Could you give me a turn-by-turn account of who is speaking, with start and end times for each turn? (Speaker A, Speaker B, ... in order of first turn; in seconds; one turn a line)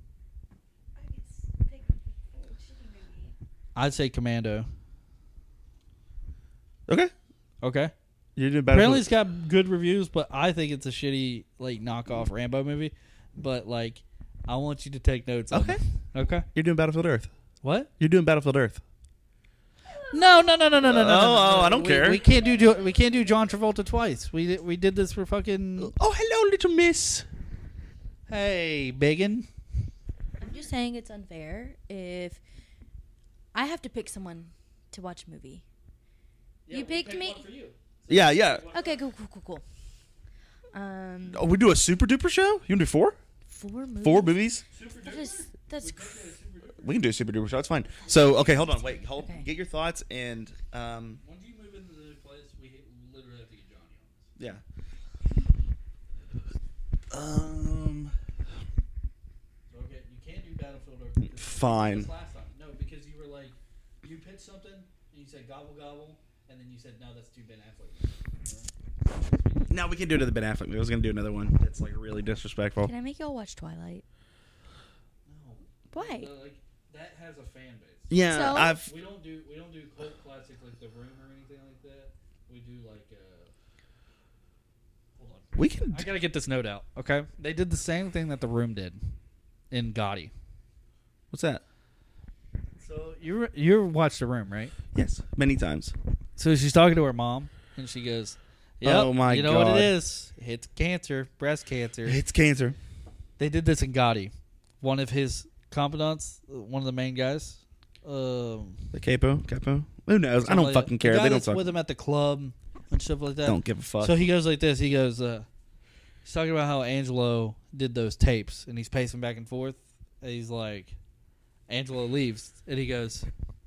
Speaker A: 1.0-3.3
Speaker B: 3.7-4.7
Speaker B: 7.6-7.9
Speaker C: 8.3-9.1
Speaker B: 8.7-16.5
Speaker C: 15.5-15.8
Speaker C: 16.5-17.3
Speaker B: 17.6-17.9
Speaker C: 18.0-18.8
Speaker A: 19.9-20.7
Speaker B: 20.1-25.9
Speaker C: 20.8-22.2
Speaker C: 25.8-27.2
Speaker B: 28.3-29.5
Speaker A: 30.4-32.4
Speaker A: 33.5-35.6
Speaker B: 36.6-39.0
Speaker A: 36.7-37.4
Speaker C: 38.1-38.7
Speaker A: 38.6-39.6
Speaker A: 40.7-41.4
Speaker C: 41.3-43.2
Speaker A: 43.5-44.4
Speaker C: 44.0-44.6
Speaker B: 44.7-46.9
Speaker A: 45.0-46.3
Speaker C: 46.8-51.2
Speaker A: 49.1-49.5
Speaker B: 51.2-54.3
Speaker C: 57.1-58.1
Speaker B: 59.7-69.8
Speaker C: 61.4-62.1
Speaker C: 69.7-72.9
Speaker A: 72.8-74.0
Speaker B: 75.3-78.2
Speaker A: 75.9-76.3
Speaker C: 78.1-78.9
Speaker A: 78.2-78.8
Speaker B: 78.8-83.5
Speaker B: 85.2-89.0
Speaker C: 85.6-86.0
Speaker B: 89.7-90.3
Speaker C: 91.3-91.6
Speaker B: 92.8-94.7
Speaker C: 94.9-95.9
Speaker B: 96.4-102.2
Speaker C: 98.8-99.9
Speaker C: 102.0-102.8
Speaker B: 103.4-108.8
Speaker C: 108.9-111.7
Speaker B: 110.4-115.5
Speaker C: 113.4-114.2
Speaker B: 116.2-120.9
Speaker B: 121.7-123.3